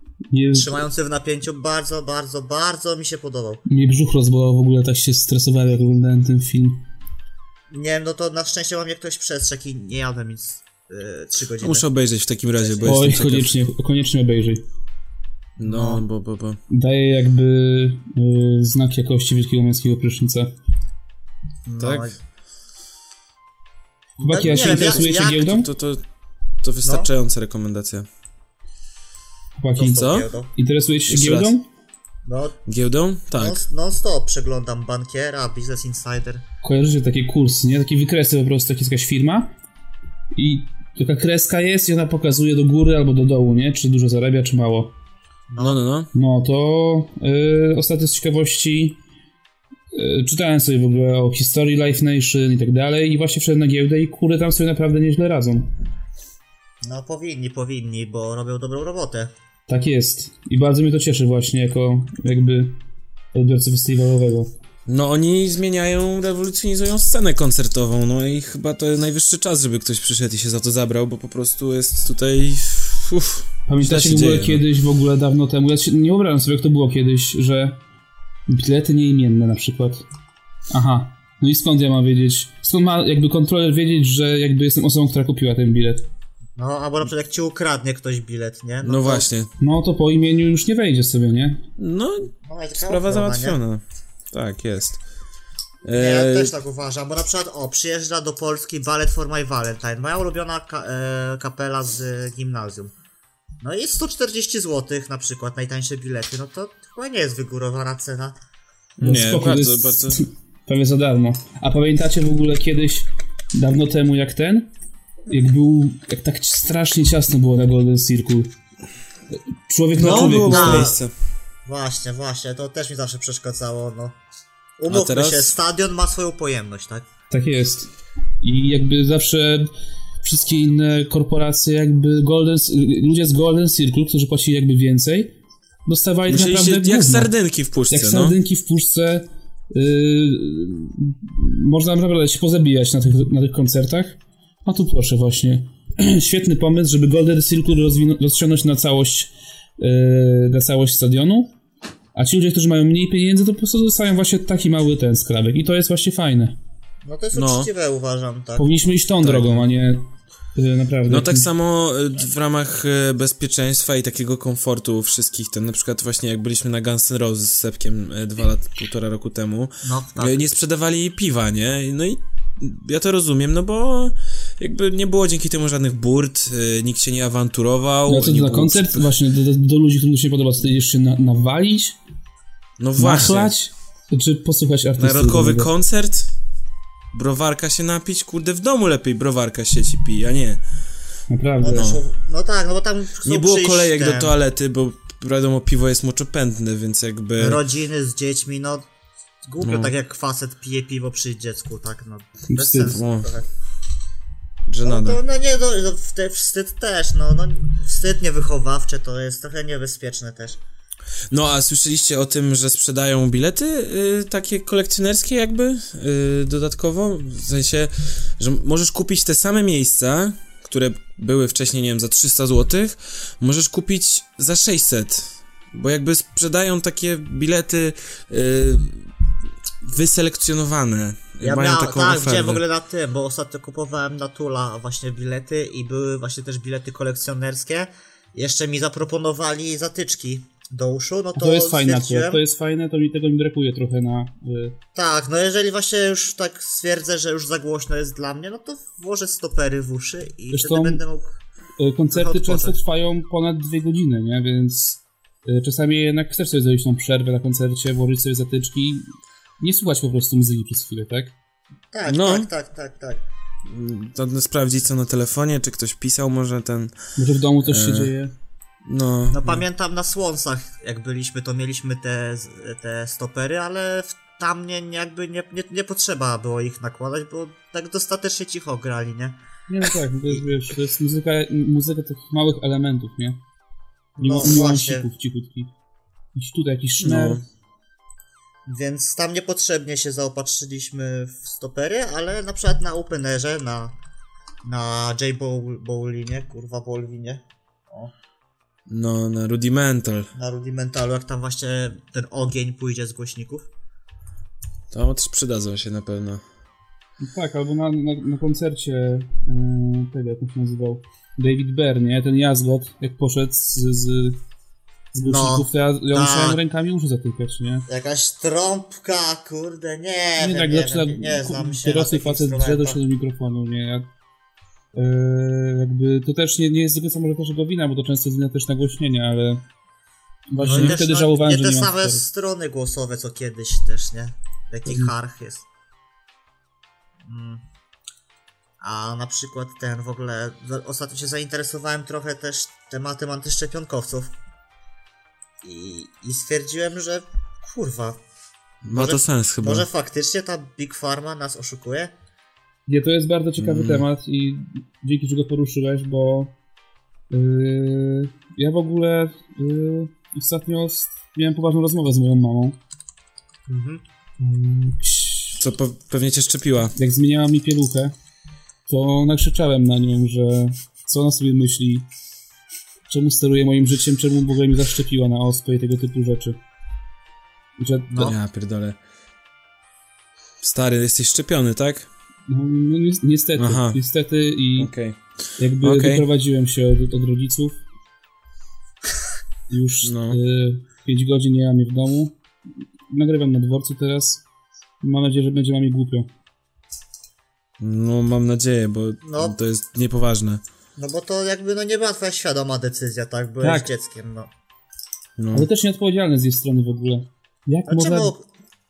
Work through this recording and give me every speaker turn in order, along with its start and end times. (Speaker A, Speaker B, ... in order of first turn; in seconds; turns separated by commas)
Speaker A: 0.3-0.8, Speaker B: 0.5-3.6, Speaker A: 3.7-6.8, Speaker B: 7.7-11.9, Speaker C: 11.6-13.6, Speaker B: 12.6-13.0, Speaker A: 12.9-14.6, Speaker C: 15.6-16.6, Speaker B: 15.6-16.0, Speaker A: 16.7-20.5, Speaker B: 21.7-22.2, Speaker C: 21.8-22.1, Speaker B: 24.2-25.5, Speaker A: 24.2-25.7, Speaker C: 24.4-26.0, Speaker C: 26.6-28.1, Speaker B: 26.8-27.1, Speaker A: 29.6-31.6, Speaker B: 29.8-30.5, Speaker C: 29.9-30.3, Speaker C: 31.1-31.6, Speaker B: 32.2-32.6, Speaker C: 32.7-33.6, Speaker B: 33.4-36.4, Speaker A: 36.6-39.5, Speaker A: 40.3-44.9, Speaker B: 45.5-45.8, Speaker C: 45.6-46.1, Speaker A: 46.1-49.0, Speaker A: 49.9-55.7, Speaker B: 56.8-59.3, Speaker A: 59.7-62.8, Speaker A: 63.3-64.5, Speaker C: 64.9-74.6, Speaker A: 73.7-77.8, Speaker A: 78.5-80.0, Speaker A: 80.7-86.0, Speaker B: 86.6-89.3, Speaker C: 88.8-89.5, Speaker A: 89.6-91.6, Speaker C: 91.8-92.3, Speaker B: 92.3-93.6, Speaker C: 92.9-95.0, Speaker C: 95.8-96.5, Speaker B: 95.9-102.9, Speaker B: 103.6-108.4, Speaker C: 109.0-110.2, Speaker A: 109.0-114.7, Speaker A: 115.3-118.5, Speaker A: 119.7-120.9, Speaker C: 119.9-121.1, Speaker B: 120.0-121.0, Speaker B: 121.7-124.2, Speaker B: 124.8-127.0, Speaker C: 124.9-125.5, Speaker A: 127.3-127.9, Speaker A: 128.4-129.7, Speaker A: 130.2-135.3, Speaker A: 135.9-137.3, Speaker C: 136.3-138.4, Speaker A: 137.9-151.5, Speaker A: 152.2-156.6, Speaker B: 157.0-158.7, Speaker C: 157.3-157.7, Speaker A: 158.6-161.5, Speaker C: 159.2-159.7, Speaker C: 161.1-179.1, Speaker B: 169.8-170.4, Speaker A: 178.1-182.0, Speaker C: 182.8-183.5, Speaker A: 183.0-185.7, Speaker C: 185.0-186.3, Speaker C: 187.1-190.6, Speaker A: 191.3-191.9, Speaker B: 191.6-194.3, Speaker C: 191.7-192.0, Speaker C: 193.2-197.6, Speaker B: 197.4-198.9, Speaker B: 199.4-203.5, Speaker C: 199.6-199.9, Speaker A: 202.5-203.0, Speaker C: 202.9-203.3, Speaker C: 204.7-205.2, Speaker B: 204.8-210.6, Speaker C: 211.3-229.1, Speaker C: 229.8-232.6, Speaker B: 231.4-242.4, Speaker A: 241.4-244.8, Speaker B: 244.9-251.4, Speaker A: 250.5-251.0, Speaker A: 251.8-261.3, Speaker B: 252.1-252.8, Speaker B: 261.9-263.2, Speaker C: 262.1-262.5, Speaker C: 263.6-267.0, Speaker A: 267.2-268.3, Speaker C: 267.6-268.1, Speaker C: 268.9-269.6, Speaker B: 269.3-279.4, Speaker A: 279.7-283.4, Speaker B: 284.2-285.1, Speaker A: 284.2-285.7, Speaker A: 286.4-287.4, Speaker C: 287.0-287.4, Speaker B: 288.7-293.9, Speaker B: 294.6-298.1, Speaker C: 298.9-300.3, Speaker B: 300.3-303.7, Speaker C: 304.9-306.4, Speaker A: 307.2-314.4, Speaker A: 315.1-317.9, Speaker B: 315.2-316.6, Speaker B: 317.9-323.0, Speaker A: 320.4-324.1, Speaker A: 324.9-329.6, Speaker A: 330.5-332.2, Speaker B: 330.6-335.7, Speaker C: 330.7-330.9, Speaker B: 337.2-337.6, Speaker B: 338.8-344.3, Speaker B: 345.6-348.2, Speaker C: 348.8-349.9, Speaker B: 348.9-352.1, Speaker A: 352.9-356.5, Speaker C: 353.6-354.0, Speaker A: 357.3-362.8, Speaker B: 363.7-364.0, Speaker A: 364.4-365.6, Speaker C: 365.6-366.9, Speaker A: 367.0-368.1, Speaker A: 368.9-372.1, Speaker A: 373.1-376.6, Speaker A: 377.8-378.1, Speaker B: 378.1-378.4, Speaker C: 378.2-379.0, Speaker C: 380.6-382.1, Speaker A: 382.5-384.9, Speaker C: 383.6-384.0, Speaker C: 384.8-385.2, Speaker A: 385.6-387.8, Speaker C: 385.8-386.2, Speaker A: 389.7-392.4, Speaker C: 390.0-390.4, Speaker A: 393.1-394.4, Speaker A: 395.0-396.3, Speaker C: 397.8-400.6, Speaker B: 399.2-399.6, Speaker B: 401.0-404.5, Speaker A: 403.6-403.9, Speaker C: 405.4-405.7, Speaker A: 405.5-408.3, Speaker B: 407.9-408.5